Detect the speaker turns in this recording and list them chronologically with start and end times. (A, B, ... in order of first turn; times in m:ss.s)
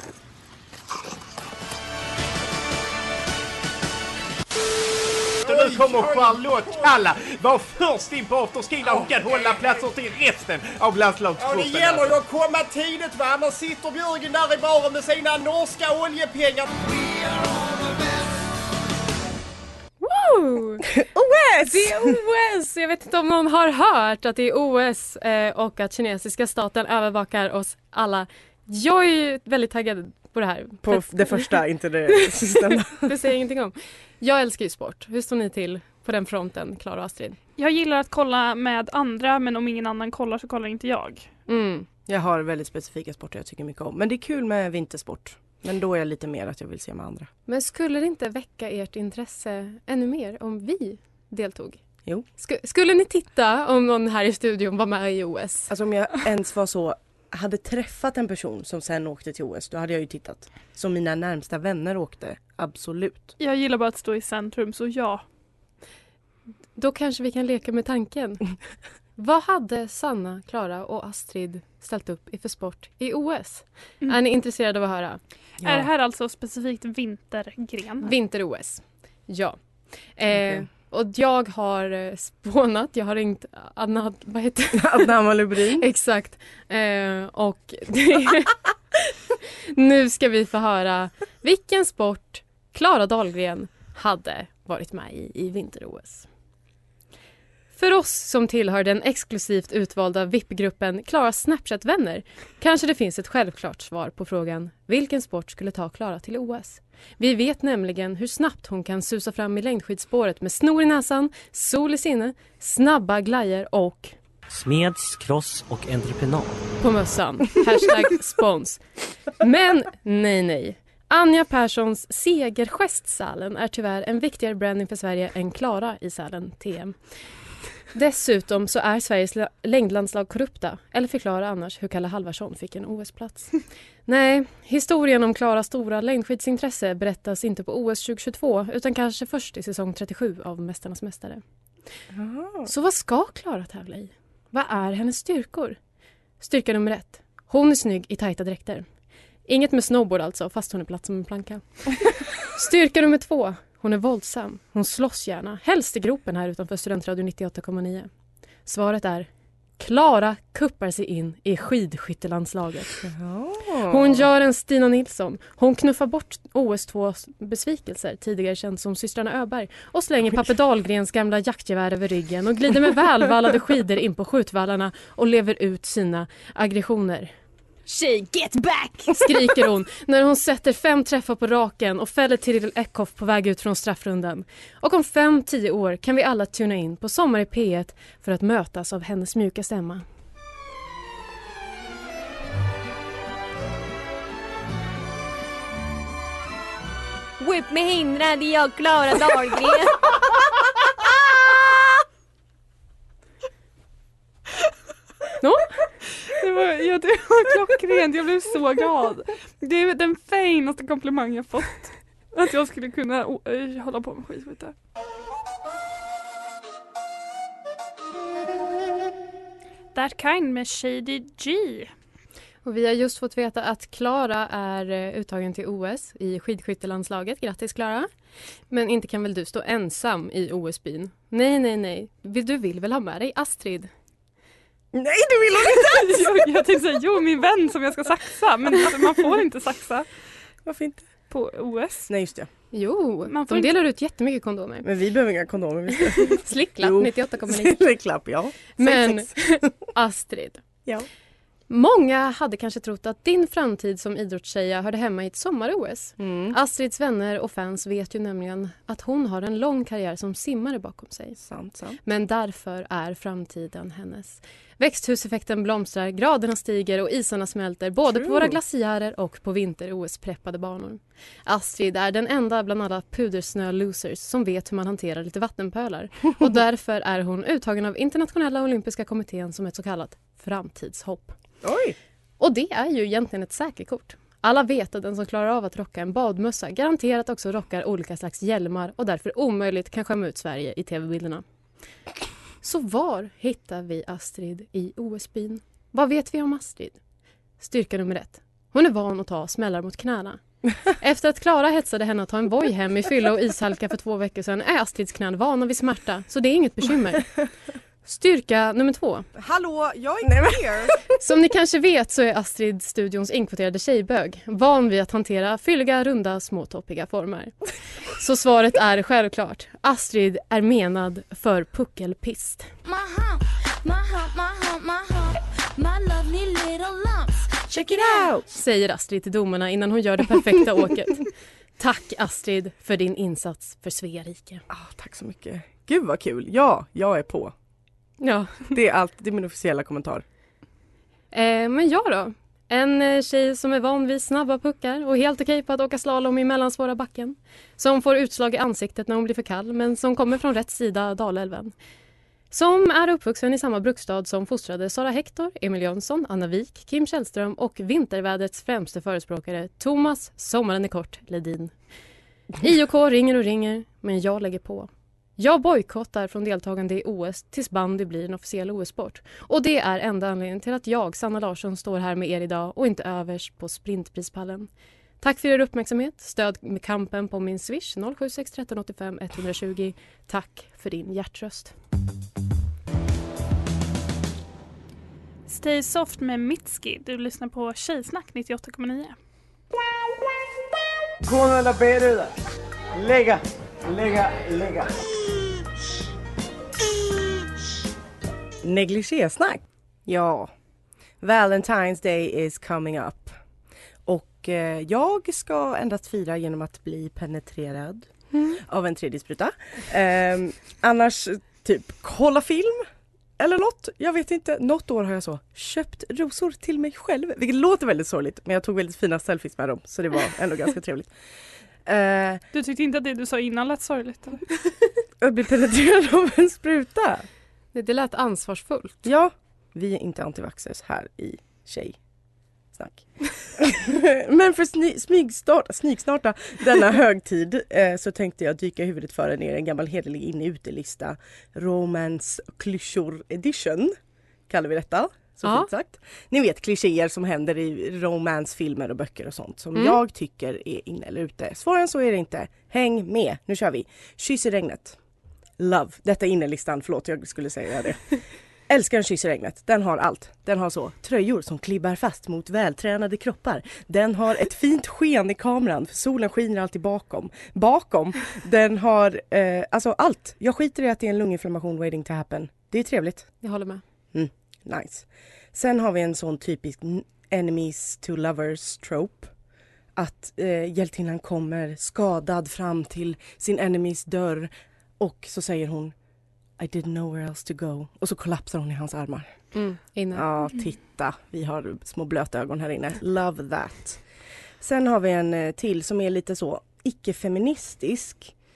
0:05.4-0:12.3 A
0:05.5-0:06.0 B
0:11.6-0:16.7 B
0:20.0-0:20.9 C
0:21.0-0:22.2 D
0:21.6-0:31.6 C
0:30.8-0:33.1 D
0:32.4-0:37.4 C
0:37.6-0:41.3 E
0:41.5-0:41.9 C
0:42.1-0:47.3 D
0:47.5-0:51.8 C
0:52.4-0:55.7 C
0:55.7-1:03.4 D
1:03.4-1:05.2 E
1:06.8-1:08.6 C
1:09.2-1:15.2 C
1:15.6-1:15.9 D
1:15.6-1:18.1 E
1:18.0-1:25.1 C
1:20.3-1:20.7 D
1:24.7-1:25.9 D
1:25.8-1:28.6 C
1:29.7-1:36.3 C
1:37.8-1:54.2 C
1:54.5-1:56.6 F
1:56.8-1:58.8 C
1:59.4-2:07.0 C
2:07.9-2:21.4 C
2:22.1-2:22.7 D
2:22.6-2:25.8 C
2:26.4-2:28.9 C
2:29.5-2:38.1 C
2:38.7-2:39.3 C
2:39.8-2:43.1 C
2:43.0-2:44.3 D
2:43.9-2:57.3 C
2:57.9-2:59.6 G
2:59.2-3:10.0 C
3:17.4-3:20.3 G
3:25.4-3:25.7 C
3:26.2-3:34.7 E
3:39.9-3:41.9 E
3:42.6-3:48.1 C
3:48.7-3:53.9 C
3:54.9-3:56.7 D
3:55.7-4:00.1 E
4:00.6-4:01.1 D
4:01.3-4:02.1 E
4:02.1-4:02.5 D
4:02.7-4:04.9 C
4:03.3-4:03.7 E
4:04.8-4:09.8 D
4:06.2-4:07.9 C
4:08.8-4:10.6 C
4:11.7-4:21.4 C
4:16.2-4:16.6 D
4:21.4-4:22.0 D
4:22.0-4:41.3 C
4:28.1-4:28.6 D
4:41.6-4:42.0 D
4:42.4-4:51.4 C
4:52.6-4:57.0 C
4:57.6-5:07.3 C
5:08.0-5:09.3 C
5:09.4-5:11.0 D
5:11.2-5:17.6 C
5:18.1-5:22.7 C
5:22.8-5:28.3 H
5:27.7-5:28.5 D
5:28.5-5:34.6 C
5:34.7-5:37.5 D
5:38.2-5:38.8 C
5:38.7-5:40.2 D
5:41.3-5:51.7 C
5:52.5-6:01.7 C
6:02.6-6:14.7 C
6:15.2-6:21.8 C
6:25.5-6:29.1 E
6:31.2-6:32.3 D
6:32.9-6:34.9 D
6:38.6-6:40.5 D
6:41.2-6:43.4 D
6:44.1-6:52.9 D
6:53.4-7:01.1 D
7:01.8-7:02.4 D
7:02.5-7:04.5 E
7:05.2-7:07.3 D
7:07.7-7:09.1 C
7:09.0-7:12.0 D
7:12.7-7:24.0 D
7:24.5-7:35.0 D
7:25.4-7:25.7 C
7:29.8-7:30.0 C
7:35.6-7:53.3 D
7:53.4-7:53.8 C
7:54.1-7:59.3 D
8:00.0-8:05.9 D
8:06.6-8:09.5 D
8:09.5-8:10.3 C
8:10.1-8:14.0 D
8:14.6-8:18.3 D